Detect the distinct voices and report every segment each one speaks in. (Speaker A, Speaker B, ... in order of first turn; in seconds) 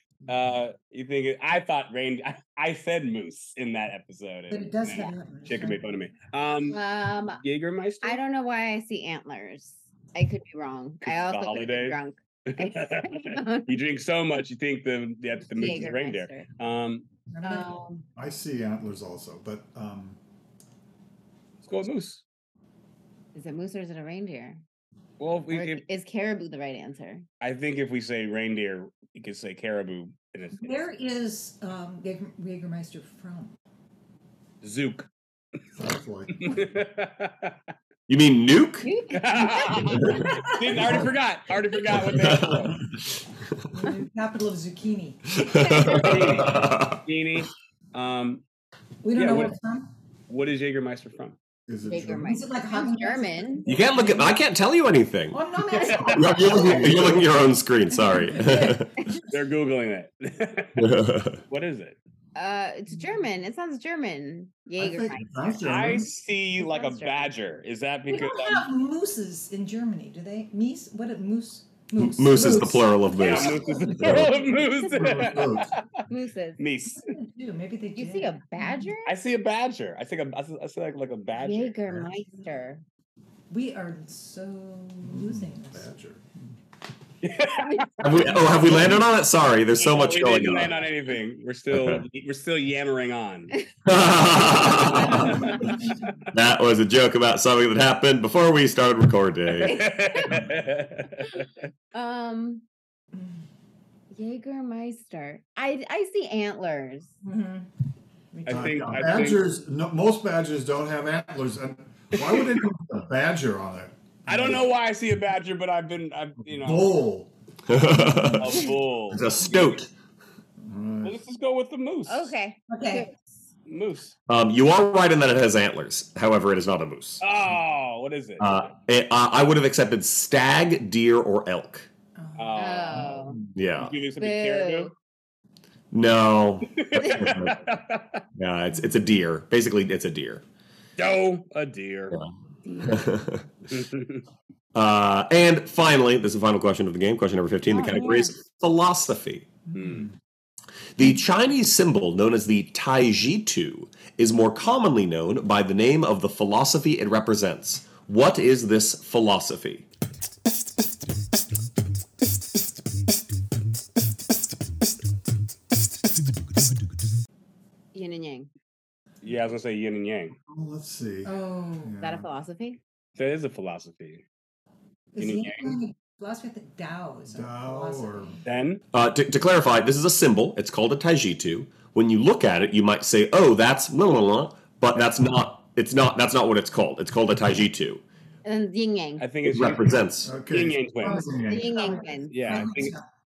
Speaker A: 0.3-6.8, 7.4-8.2, 11.0-17.1, 21.6-22.2, 25.2-25.8, 27.4-30.8, 34.6-35.1, 36.4-37.6, 39.1-42.8, 45.9-48.4, 49.1-49.6, 50.3-51.4, 55.8-56.4, 59.3-62.0, 65.7-68.7, 73.2-76.0, 76.6-77.2, 79.0-81.8, 87.2-88.7, 89.8-93.6, 94.8-95.7, 99.7-101.5, 108.5-109.4, 114.3-117.0, 118.4-119.8, 121.0-122.3, 123.7-124.2, 127.2-128.7, 132.4-134.9, 136.7-138.2, 141.0-142.2, 143.7-144.2, 149.8-150.1, 169.2-170.3, 173.2-174.2, 175.2-175.8, 178.4-178.8, 189.2-191.3, 192.3-193.0
Speaker B: 4.5-5.8, 17.3-17.7, 30.6-33.5, 40.3-40.6, 43.7-45.2, 49.0-49.9, 52.2-54.4, 55.3-57.2, 57.9-59.1, 68.1-73.0, 76.9-78.9, 83.5-85.9, 95.3-95.7, 103.2-103.4, 107.2-107.7, 108.3-109.3, 118.1-118.4, 122.7-123.1, 132.2-133.1, 171.2-171.9, 175.1-178.4, 191.0-193.0
Speaker C: 6.7-7.4, 8.0-13.8, 15.5-16.5, 17.4-18.1, 23.4-24.6, 25.5-27.3, 38.8-40.3, 45.4-46.5, 51.9-53.7, 55.8-56.1, 62.4-66.0, 66.6-67.3, 74.4-76.6, 78.0-79.1, 81.3-82.8, 94.5-95.7, 99.6-100.4, 101.9-102.6, 104.1-107.1, 122.1-123.1, 132.6-133.4, 134.2-134.9, 137.0-137.3, 142.7-143.1, 147.7-148.3, 167.9-168.5, 172.0-172.8, 188.4-189.2, 191.5-192.7
Speaker D: 18.1-20.2, 35.8-36.6, 51.7-52.4, 56.6-57.2, 64.8-66.1, 73.4-75.7, 85.1-86.5, 108.5-114.7, 116.4-117.3, 120.6-121.2, 149.7-150.1, 170.5-172.3, 177.3-178.4, 190.2-191.8
Speaker E: 38.1-38.9, 40.0-40.3, 41.9-42.8, 45.4-47.0, 53.7-55.4, 56.1-58.9, 60.8-61.4, 72.0-74.3, 88.0-90.8, 91.7-92.0, 93.9-95.5, 96.3-99.8, 117.7-119.9, 124.3-127.2, 128.4-131.9, 133.6-133.9, 135.9-137.7, 138.4-140.4, 142.8-143.4, 144.8-149.5, 151.0-159.8, 178.9-188.0, 189.4-190.3